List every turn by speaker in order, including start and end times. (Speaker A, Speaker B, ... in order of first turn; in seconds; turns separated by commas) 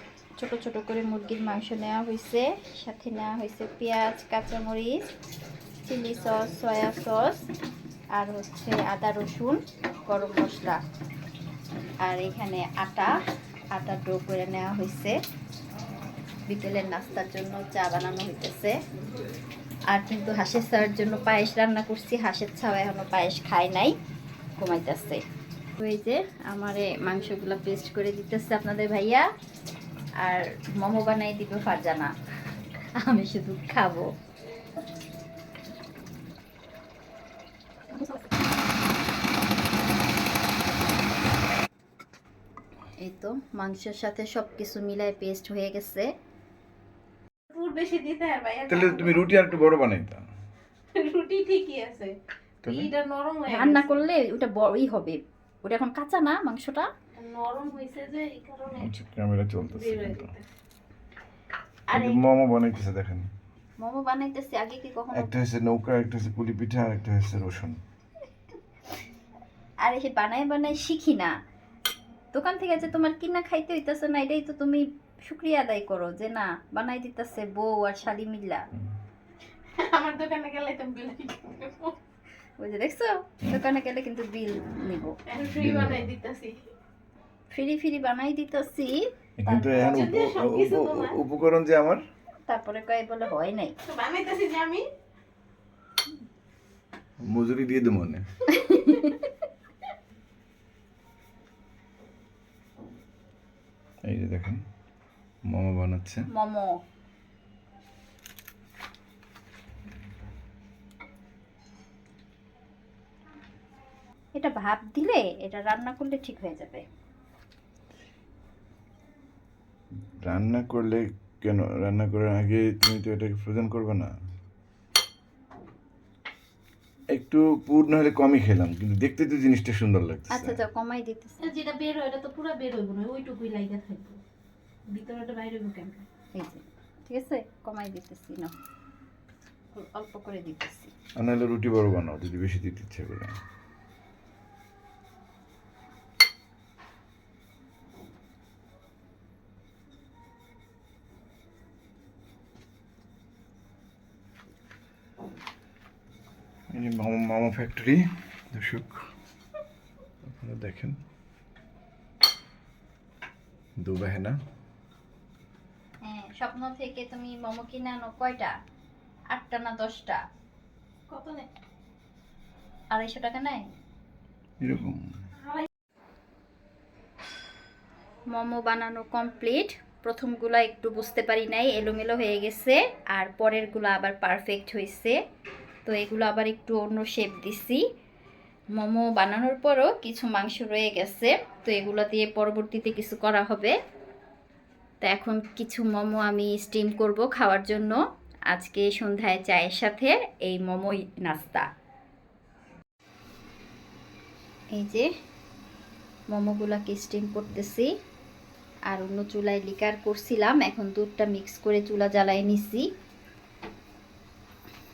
Speaker A: 0.4-5.1, Speaker A: 5.8-7.5, Speaker A: 8.1-10.8, Speaker A: 12.0-13.2, Speaker A: 13.7-15.2, Speaker A: 16.5-18.8, Speaker A: 19.9-23.9, Speaker A: 24.6-25.2, Speaker A: 25.8-29.3, Speaker A: 30.2-32.1, Speaker A: 33.0-34.1, Speaker A: 43.0-46.1, Speaker B: 47.5-49.2, Speaker C: 48.7-50.2, Speaker B: 50.9-54.0, Speaker C: 52.6-52.9, Speaker A: 53.5-56.9, Speaker B: 57.1-58.9, Speaker C: 58.7-60.3, Speaker B: 59.7-60.4, Speaker A: 61.9-62.2, Speaker C: 61.9-63.3, Speaker A: 63.8-65.3, Speaker C: 65.1-67.8, Speaker A: 69.8-71.3, Speaker A: 72.3-78.7, Speaker B: 79.8-82.0, Speaker A: 82.6-85.2, Speaker B: 85.3-86.6, Speaker C: 85.5-86.1, Speaker A: 87.5-89.8, Speaker C: 89.4-92.0, Speaker B: 89.7-91.2, Speaker A: 92.5-93.8, Speaker B: 93.8-94.8, Speaker C: 97.3-98.2, Speaker A: 98.5-99.2, Speaker C: 104.0-104.6, Speaker C: 105.5-106.2, Speaker A: 106.3-106.8, Speaker A: 114.3-116.8, Speaker C: 120.2-124.1, Speaker C: 127.1-130.6, Speaker A: 130.3-131.4, Speaker B: 131.4-134.2, Speaker B: 134.9-136.1, Speaker A: 136.3-138.5, Speaker A: 139.7-140.9, Speaker C: 141.2-143.4, Speaker C: 156.7-159.1, Speaker C: 160.2-161.0, Speaker C: 163.8-164.4, Speaker A: 166.0-168.5, Speaker A: 169.3-170.2, Speaker B: 171.1-171.5, Speaker A: 172.9-173.6, Speaker C: 174.6-175.0, Speaker B: 175.4-175.7, Speaker A: 178.3-185.2, Speaker A: 185.8-187.8, Speaker A: 188.8-193.7, Speaker A: 195.0-198.0, Speaker A: 198.5-201.7, Speaker A: 204.7-205.1, Speaker A: 206.3-207.9, Speaker A: 208.9-212.9